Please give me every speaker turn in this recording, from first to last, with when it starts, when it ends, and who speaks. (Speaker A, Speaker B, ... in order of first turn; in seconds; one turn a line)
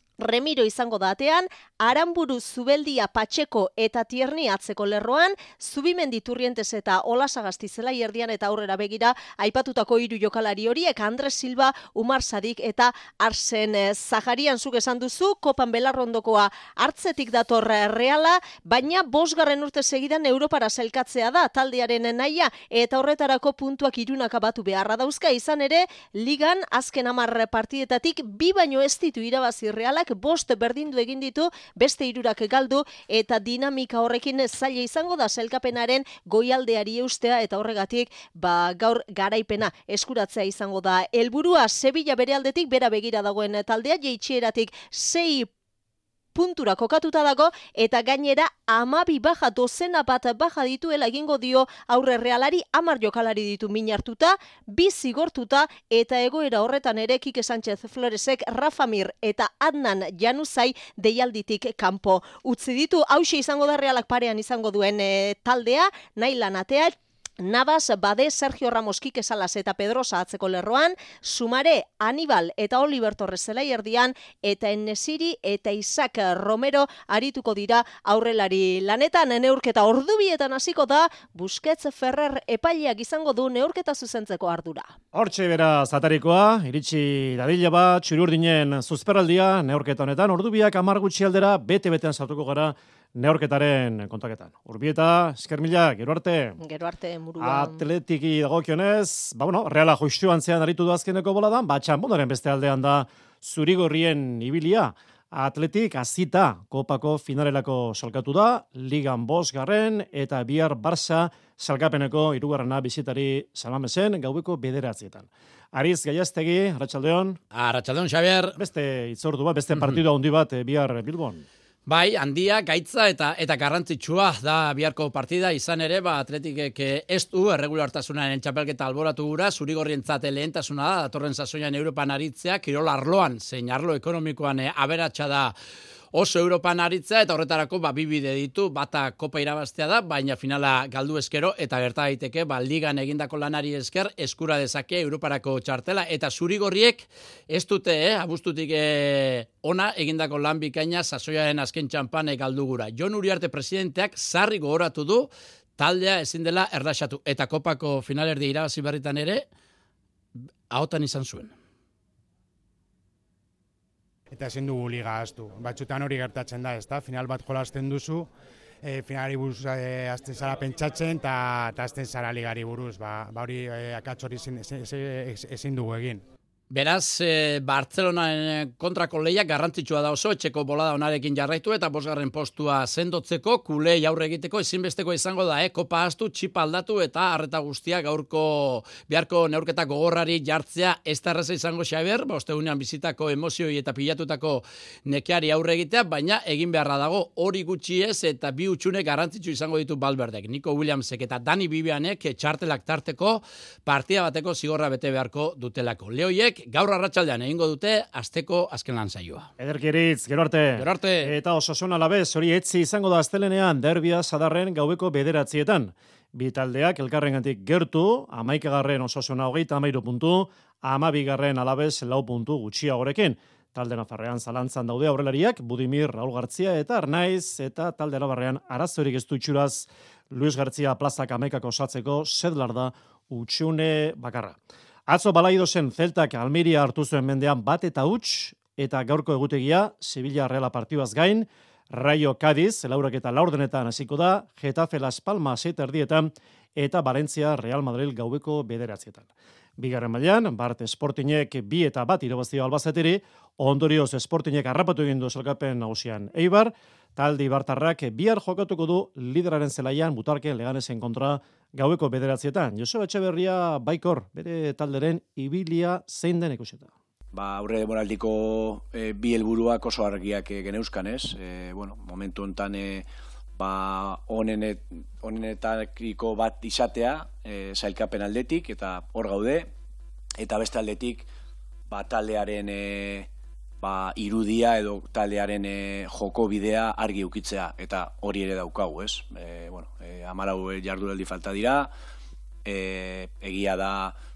Speaker A: 0.2-45.5
Speaker A: 46.4-84.9
Speaker B: 85.1-96.6
Speaker A: 96.6-97.8
Speaker B: 97.4-117.4
Speaker C: 117.5-118.5
Speaker B: 118.6-121.5
Speaker C: 121.9-135.6
Speaker C: 136.1-159.5
Speaker C: 160.7-161.5
Speaker D: 164.3-168.3
Speaker D: 168.8-176.2
Speaker C: 176.7-209.5
Speaker B: 209.6-234.6
Speaker C: 210.8-211.3
Speaker B: 235.1-249.3
Speaker B: 249.8-266.9
Speaker E: 267.3-273.1
Speaker E: 273.6-279.7
Speaker E: 280.4-281.3
Speaker E: 281.9-283.3
Speaker E: 283.8-291.9
Speaker E: 292.6-294.1